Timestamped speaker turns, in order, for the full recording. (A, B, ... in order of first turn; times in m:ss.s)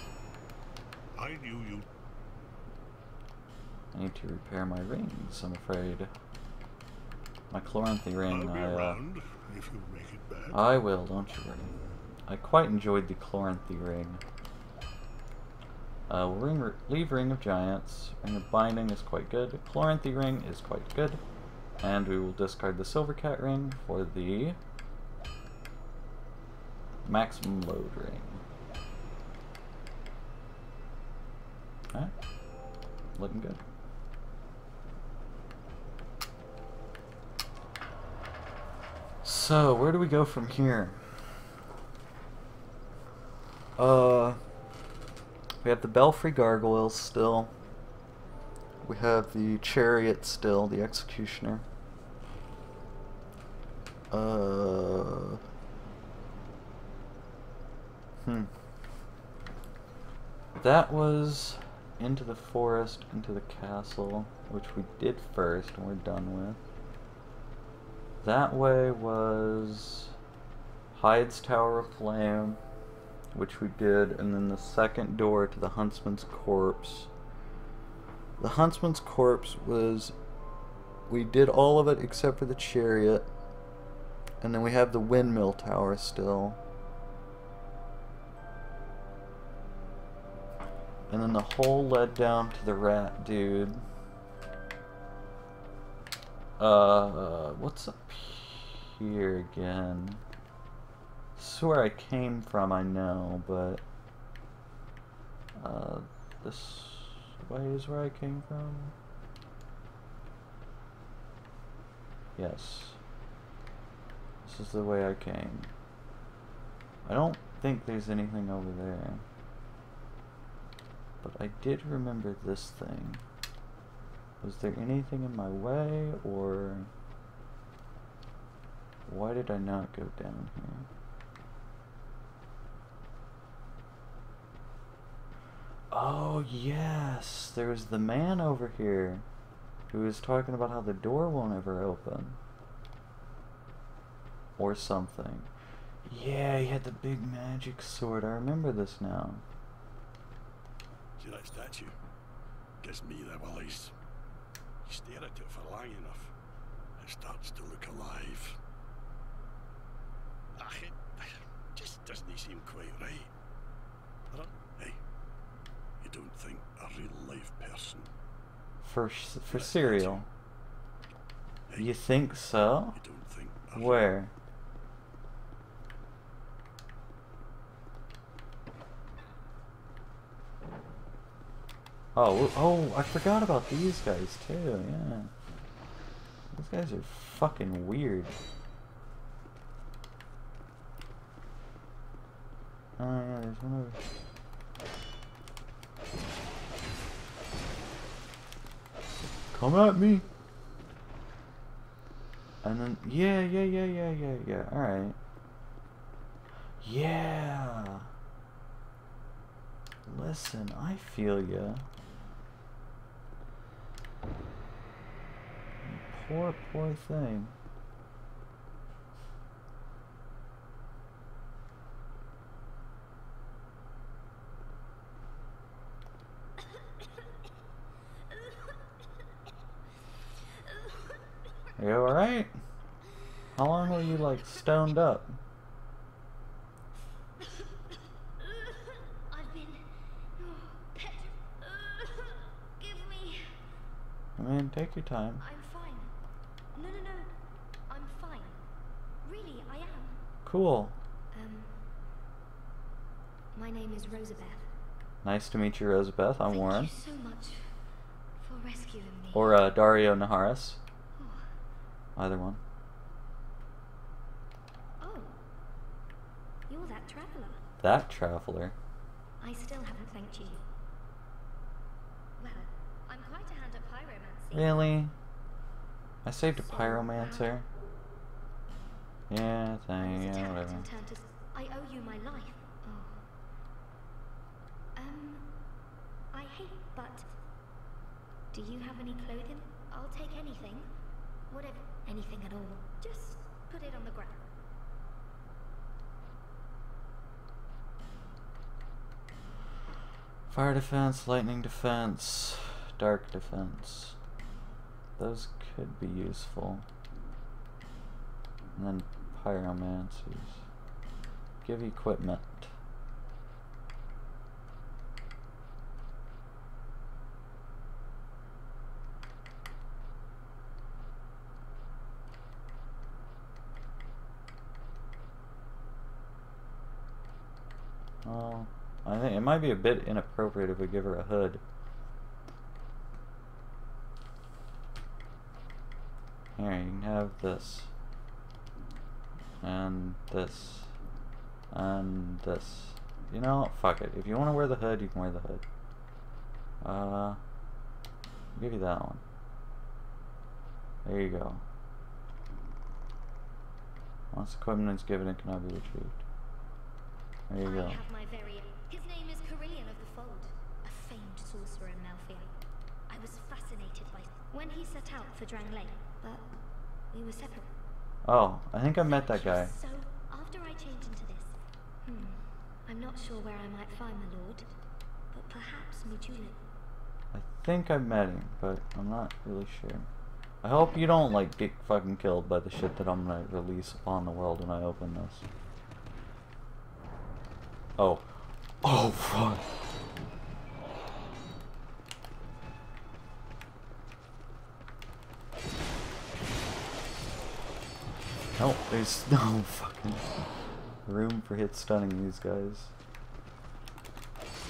0:01.1-0:01.9 A
0:03.9-0:06.1 B
0:07.5-0:09.0 B
0:08.3-0:10.6 A
0:10.5-0:11.8 B
0:12.3-0:14.2 B
0:16.1-0:21.2 B
0:21.8-0:24.6 B
0:27.0-0:28.4 B
0:33.2-0:33.6 B
0:39.2-0:41.4 B
0:43.8-0:44.4 B
0:45.6-0:47.5 B
0:48.8-0:51.6 B
0:54.1-0:55.4 B
0:58.2-0:58.5 B
1:00.6-1:06.6 B
1:08.2-1:10.1 B
1:10.9-1:12.6 B
1:13.3-1:17.1 B
1:18.4-1:20.1 B
1:21.1-1:23.3 B
1:24.4-1:26.6 B
1:31.1-1:33.8 B
1:36.6-1:40.2 B
1:41.4-1:43.8 B
1:45.6-1:48.9 B
1:52.4-1:53.0 B
1:54.4-1:55.7 B
1:57.0-1:59.2 B
2:01.2-2:03.2 B
2:04.4-2:06.9 B
2:09.1-2:10.9 B
2:15.9-2:19.2 B
2:19.9-2:22.4 B
2:24.6-2:25.5 B
2:26.0-2:29.4 B
2:31.2-2:31.9 A
2:32.8-2:33.9 A
2:34.8-2:36.3 A
2:37.0-2:38.6 A
2:40.5-2:43.3 A
2:44.3-2:45.0 A
2:46.0-2:48.1 A
2:48.8-2:50.3 B
2:49.5-2:50.2 A
2:51.8-2:53.0 B
2:52.9-2:54.1 A
2:53.7-2:54.3 B
3:02.1-3:05.3 B
3:06.5-3:08.4 B
3:13.0-3:14.0 B
3:19.5-3:20.2 B
3:22.6-3:25.2 B
3:26.8-3:28.1 B
3:30.0-3:31.8 B
3:35.8-3:37.5 B
3:51.8-3:52.5 B
3:53.6-3:55.4 B
3:57.4-4:03.6 C
4:04.4-4:05.4 B
4:05.4-4:06.1 C
4:06.7-4:07.3 C
4:07.9-4:08.6 C
4:09.2-4:10.2 C
4:10.4-4:11.0 B
4:11.3-4:11.9 C
4:13.5-4:14.7 C
4:15.2-4:16.9 B
4:16.5-4:17.7 C
4:18.4-4:19.6 C
4:19.3-4:20.8 B
4:21.2-4:21.5 C
4:22.2-4:22.6 B
4:25.0-4:25.4 C
4:26.7-4:27.6 C
4:27.8-4:28.7 B
4:29.4-4:30.6 C
4:32.4-4:34.9 C
4:34.5-4:35.1 B
4:36.2-4:37.6 B
4:36.6-4:37.5 C
4:39.3-4:40.8 B
4:40.0-4:43.3 C
4:45.0-4:45.7 C
4:46.3-4:47.3 C
4:48.5-4:50.9 C
4:51.5-4:54.4 C
5:00.5-5:04.2 B
5:05.2-5:06.8 B
5:08.8-5:10.6 B
5:11.6-5:12.7 B
5:28.2-5:31.6 B
5:36.6-5:37.9 B
5:39.6-5:40.9 B
5:41.7-5:45.6 B
5:46.8-5:47.4 B
5:48.5-5:49.2 B
5:51.0-5:51.6 B
5:54.3-5:56.2 B
5:57.5-5:58.0 B
5:57.6-6:02.5 C
6:03.1-6:06.5 C
6:07.1-6:07.7 C
6:08.2-6:09.7 B
6:09.0-6:14.7 C
6:15.3-6:16.6 C
6:17.3-6:20.1 B
6:20.6-6:25.4 B
6:28.0-6:28.3 B
6:28.8-6:29.6 B
6:38.6-6:40.4 B
6:41.0-6:42.9 B